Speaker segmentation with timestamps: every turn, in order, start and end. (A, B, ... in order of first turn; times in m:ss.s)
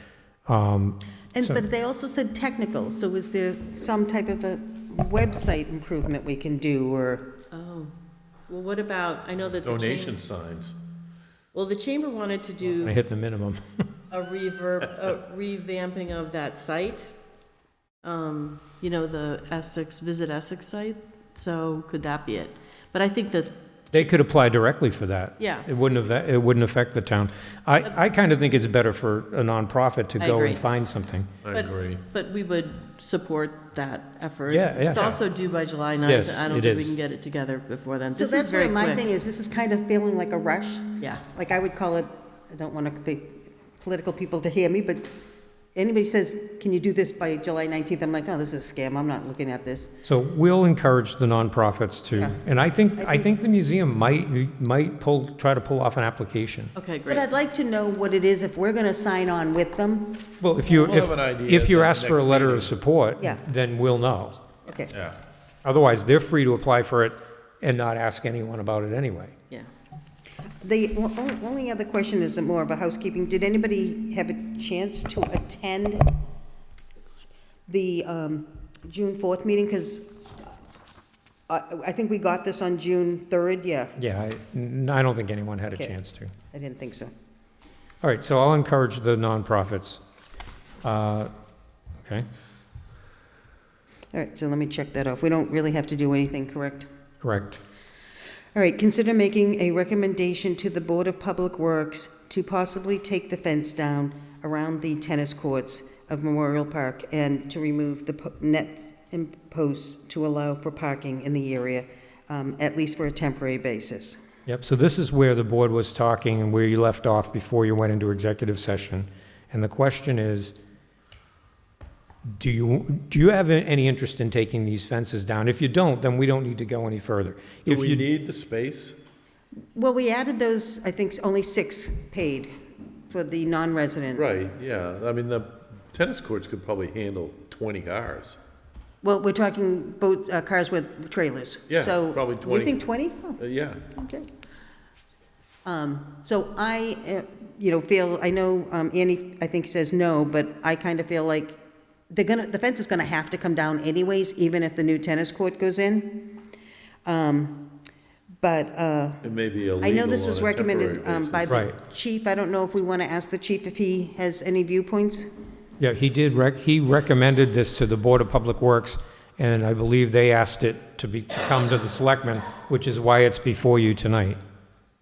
0:00.5-0:01.6 A
0:01.4-0:07.3 B
0:07.5-0:07.9 C
0:08.5-0:10.2 C
0:09.5-0:10.8 D
0:11.5-0:13.0 C
0:12.8-0:13.6 A
0:14.1-0:17.1 C
0:18.0-0:24.1 C
0:23.9-0:31.3 A
0:25.4-0:25.7 C
0:30.2-0:30.6 C
0:31.4-0:32.1 D
0:31.5-0:39.0 C
0:34.5-0:35.1 A
0:34.9-0:35.2 D
0:36.0-0:36.9 A
0:38.2-0:45.1 B
0:45.8-0:49.9 B
0:50.0-0:56.7 A
0:52.2-0:52.4 B
0:53.0-0:53.3 B
0:56.8-0:57.3 C
0:57.1-1:00.2 B
1:00.4-1:04.4 A
1:00.7-1:02.8 D
1:04.7-1:04.9 B
1:04.9-1:05.2 D
1:05.6-1:09.3 A
1:10.6-1:16.2 B
1:17.7-1:20.5 B
1:21.5-1:24.0 B
1:24.0-1:26.3 A
1:26.5-1:27.1 B
1:28.0-1:30.0 A
1:30.8-1:31.3 A
1:34.1-1:36.9 B
1:37.2-1:37.6 A
1:38.6-1:54.2 B
1:54.5-2:00.5 A
2:02.4-2:08.1 A
2:07.7-2:09.0 D
2:09.8-2:12.5 B
2:13.1-2:14.3 B
2:14.2-2:18.4 D
2:19.0-2:24.3 B
2:21.7-2:22.8 D
2:23.4-2:23.8 D
2:25.6-2:31.6 B
2:32.1-2:36.4 B
2:37.1-2:37.7 B
2:38.4-2:39.2 B
2:39.2-2:41.6 D
2:39.8-2:45.3 B
2:45.8-2:54.4 A